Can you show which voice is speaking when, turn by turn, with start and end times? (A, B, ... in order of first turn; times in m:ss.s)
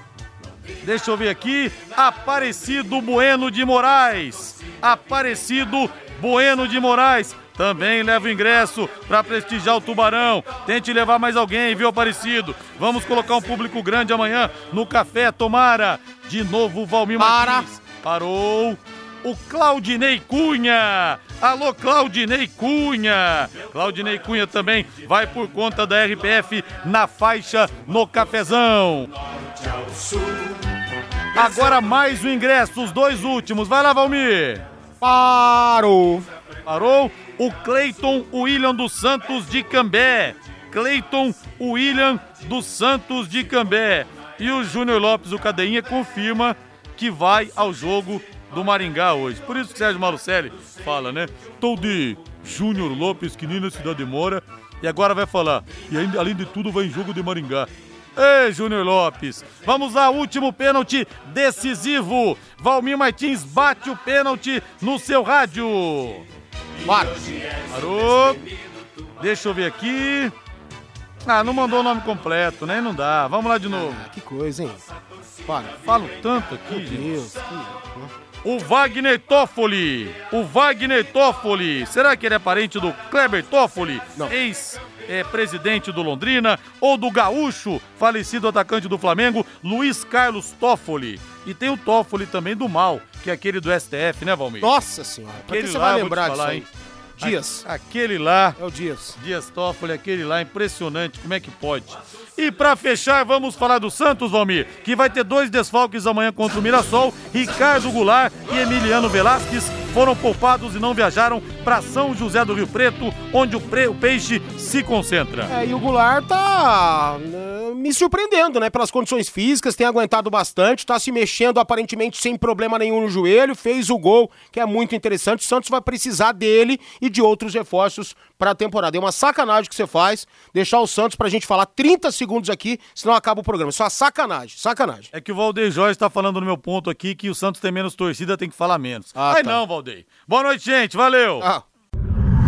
0:00.8-0:29.1 A
0:17.2-0:17.7 B
0:30.0-0:30.4 B
0:31.4-0:34.6 A
0:35.0-0:36.3 B
0:36.7-1:06.2 A
1:06.8-1:07.2 B
1:07.7-1:08.4 A
1:09.2-1:10.3 A
1:11.3-1:14.0 A
1:13.7-1:14.8 B
1:15.5-1:15.8 B
1:15.8-1:17.2 A
1:16.7-1:18.1 B
1:18.4-1:34.7 A
1:34.6-1:36.7 B
1:35.5-1:36.6 A
1:37.2-1:37.7 B
1:37.2-1:38.6 A
1:38.6-1:39.2 B
1:39.2-1:55.5 A
1:55.5-2:15.1 B
2:15.1-2:21.5 A
2:19.2-2:19.6 B